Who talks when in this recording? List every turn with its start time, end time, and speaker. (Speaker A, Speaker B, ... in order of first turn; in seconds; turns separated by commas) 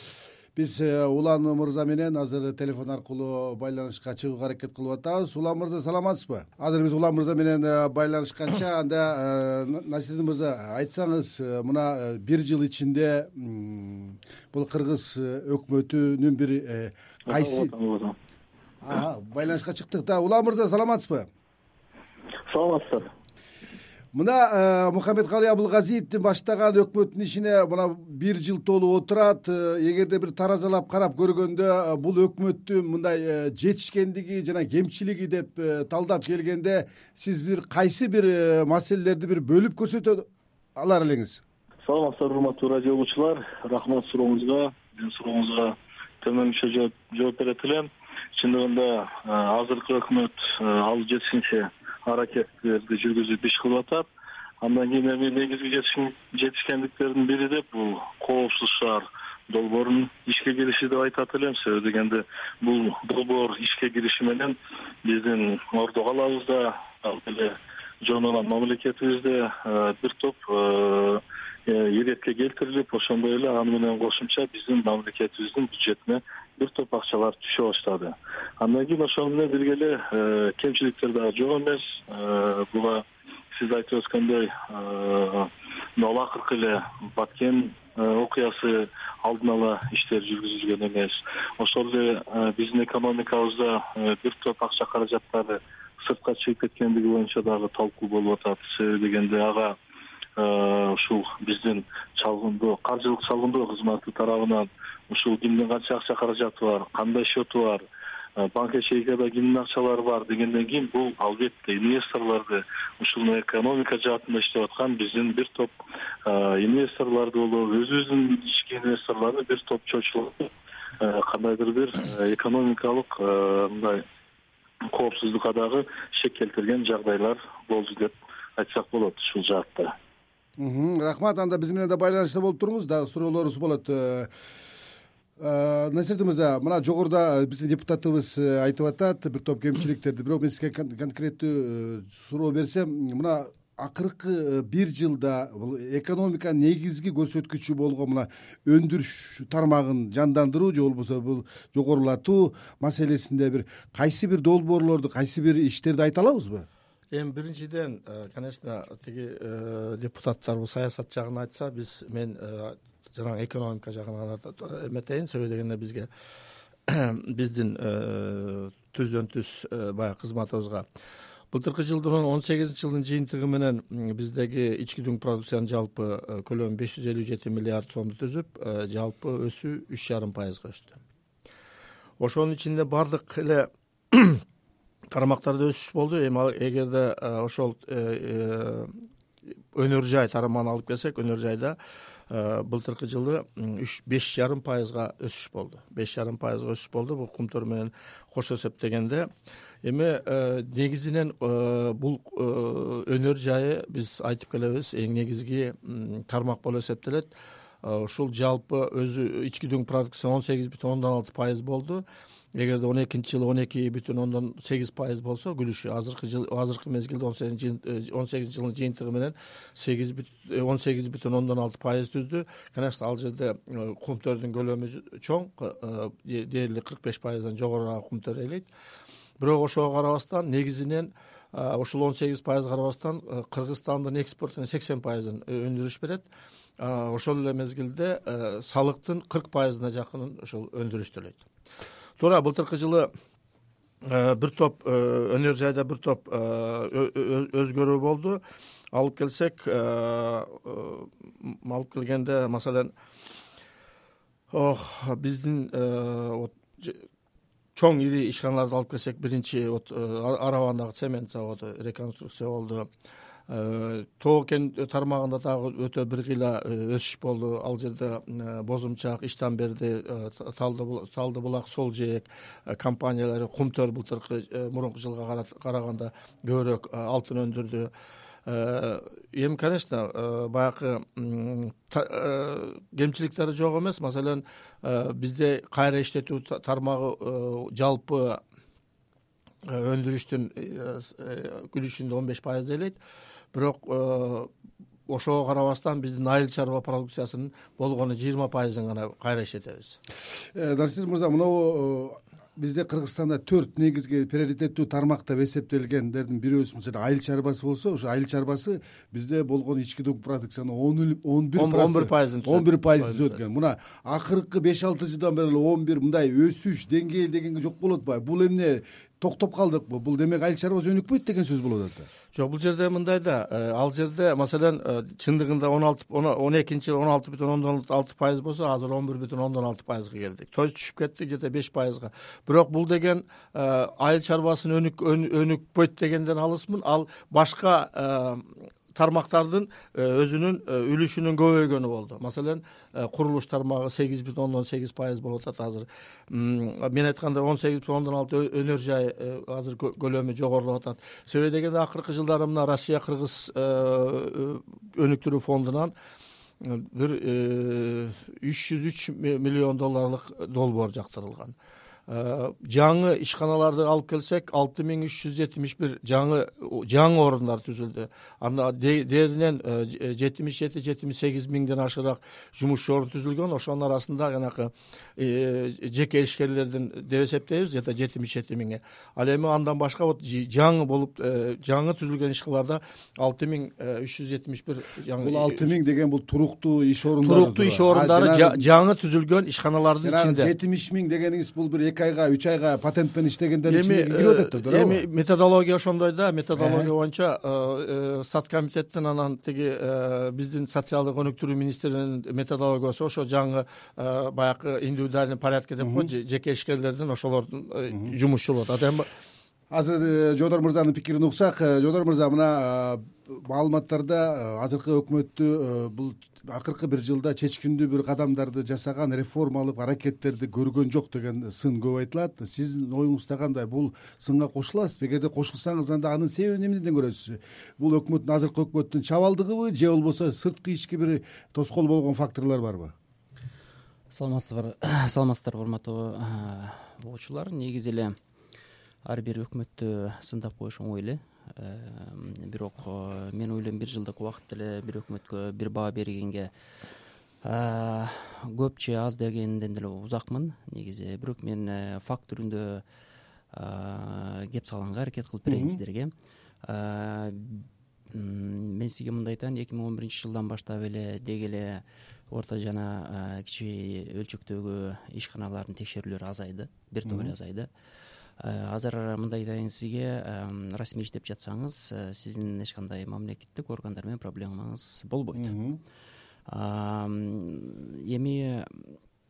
Speaker A: 0.6-17.7, Speaker B: 17.3-18.1, Speaker A: 18.8-21.3, Speaker B: 22.5-23.1, Speaker A: 24.1-41.4, Speaker B: 41.9-54.1, Speaker B: 54.6-99.7, Speaker B: 100.4-107.8, Speaker B: 108.4-115.7, Speaker B: 116.2-124.0, Speaker B: 124.9-129.9, Speaker A: 130.6-134.3, Speaker A: 135.4-156.7, Speaker C: 157.1-166.1, Speaker C: 166.9-170.8, Speaker C: 171.5-181.0, Speaker C: 182.2-184.4, Speaker C: 185.1-188.9, Speaker C: 189.7-191.8, Speaker C: 192.3-199.3, Speaker C: 199.8-207.3, Speaker C: 207.8-228.7, Speaker C: 229.4-236.2, Speaker C: 236.8-241.4, Speaker C: 242.2-243.1, Speaker C: 244.0-248.4, Speaker C: 248.9-252.9, Speaker C: 254.5-257.0, Speaker C: 257.8-262.9, Speaker C: 263.5-277.9, Speaker C: 278.4-288.4, Speaker C: 289.6-293.0, Speaker C: 293.5-294.5, Speaker C: 295.1-300.0, Speaker A: 300.5-322.1, Speaker C: 311.6-313.4, Speaker C: 322.3-355.9, Speaker C: 356.6-361.6, Speaker C: 362.1-385.7, Speaker A: 385.2-388.6, Speaker C: 387.2-390.5, Speaker A: 390.0-395.0, Speaker C: 393.6-409.1, Speaker A: 396.6-396.9, Speaker A: 405.8-406.1, Speaker A: 409.7-432.9, Speaker D: 434.1-438.1, Speaker D: 439.1-446.5, Speaker D: 447.4-452.8, Speaker D: 453.5-456.1, Speaker A: 455.5-455.8, Speaker D: 456.6-467.7, Speaker A: 467.1-467.3, Speaker D: 468.4-475.5, Speaker A: 475.3-475.8, Speaker D: 476.5-479.0